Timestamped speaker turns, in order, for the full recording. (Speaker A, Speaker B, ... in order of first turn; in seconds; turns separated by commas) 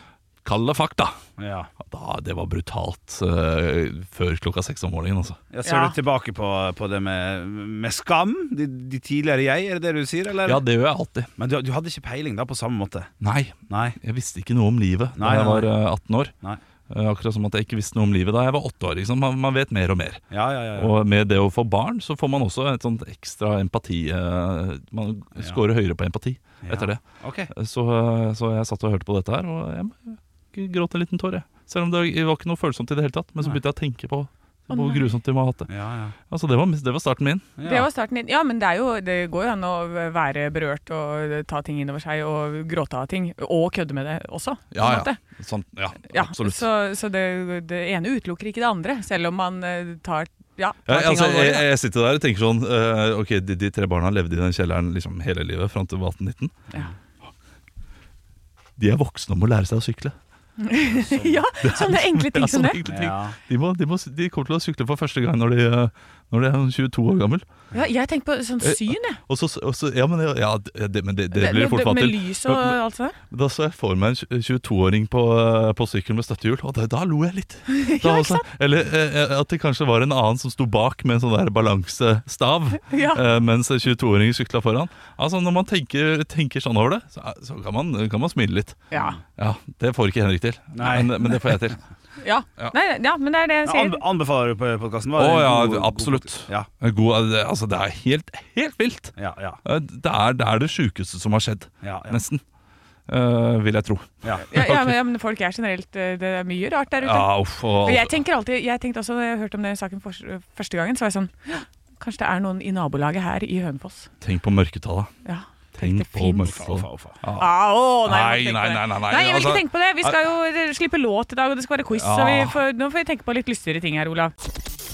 Speaker A: 0.4-1.2, Speaker B: 1.4-1.7, Speaker A: 1.9-5.4, Speaker B: 5.5-10.6, Speaker C: 5.7-6.0, Speaker A: 10.4-11.3, Speaker B: 11.4-13.1, Speaker A: 13.2-16.3, Speaker B: 13.7-14.0, Speaker B: 15.2-15.7, Speaker A: 16.9-35.7, Speaker B: 20.3-20.9, Speaker B: 26.6-27.5, Speaker C: 34.7-35.1, Speaker B: 35.7-36.1, Speaker A: 36.3-37.5, Speaker B: 37.6-37.9, Speaker C: 37.6-45.2, Speaker A: 44.7-46.6, Speaker C: 46.1-51.6, Speaker A: 50.9-56.5, Speaker A: 58.8-60.1, Speaker C: 60.6-62.8, Speaker B: 60.9-61.4, Speaker A: 61.6-67.4, Speaker B: 62.9-63.3, Speaker C: 67.7-69.2, Speaker A: 68.6-72.8, Speaker C: 71.3-73.2, Speaker A: 73.3-88.8, Speaker C: 77.7-78.4, Speaker C: 82.9-83.2, Speaker C: 88.9-89.2, Speaker A: 89.4-91.8, Speaker B: 90.7-91.4, Speaker C: 92.2-94.0, Speaker B: 93.6-96.7, Speaker A: 95.2-102.4, Speaker B: 99.2-99.6, Speaker B: 101.8-102.2, Speaker A: 103.1-104.9, Speaker C: 104.5-114.1, Speaker A: 107.0-108.1, Speaker A: 114.2-115.1, Speaker C: 115.2-116.5, Speaker A: 115.7-120.2, Speaker B: 116.4-117.2, Speaker C: 117.4-124.3, Speaker A: 121.9-122.6